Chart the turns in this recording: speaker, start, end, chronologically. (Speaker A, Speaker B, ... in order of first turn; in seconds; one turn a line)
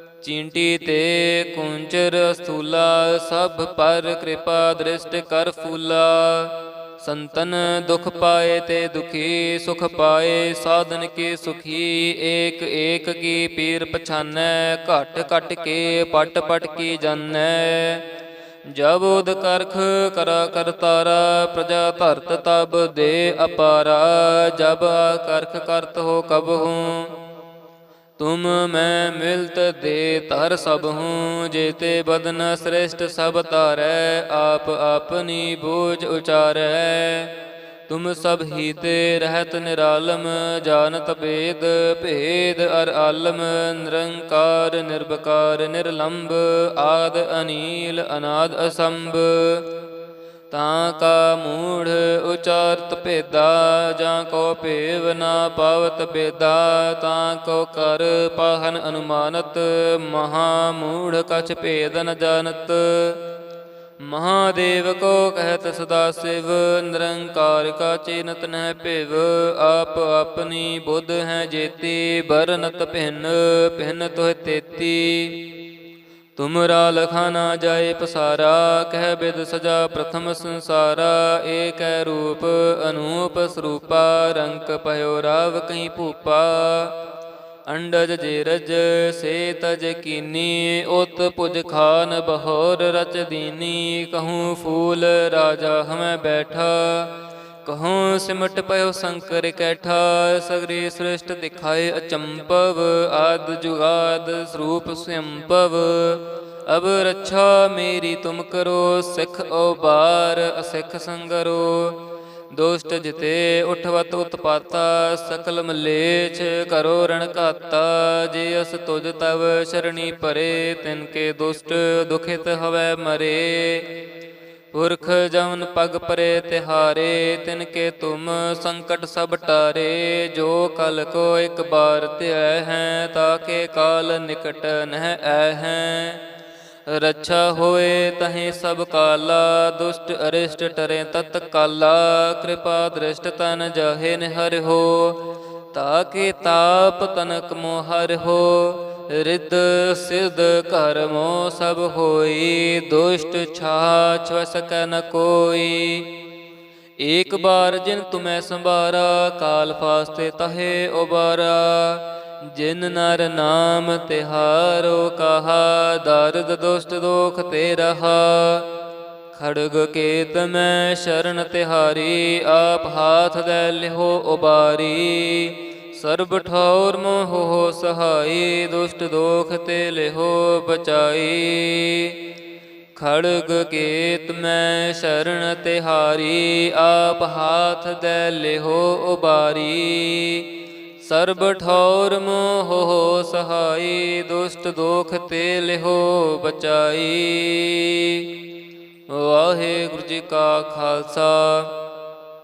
Speaker A: 0.2-18.0
Speaker A: 18.7-27.1
Speaker A: 28.2-37.3
Speaker A: 37.9-49.7
Speaker A: 50.5-63.2
Speaker A: 64.0-75.5
Speaker A: 76.4-87.0
Speaker A: 87.7-112.0
Speaker A: 112.5-123.9
Speaker A: 124.7-136.2
Speaker A: 136.9-145.2
Speaker A: 145.7-156.1
Speaker A: 157.0-168.7
Speaker A: 169.3-182.2
Speaker A: 182.9-190.5
Speaker A: 191.0-198.3
Speaker A: 199.1-201.7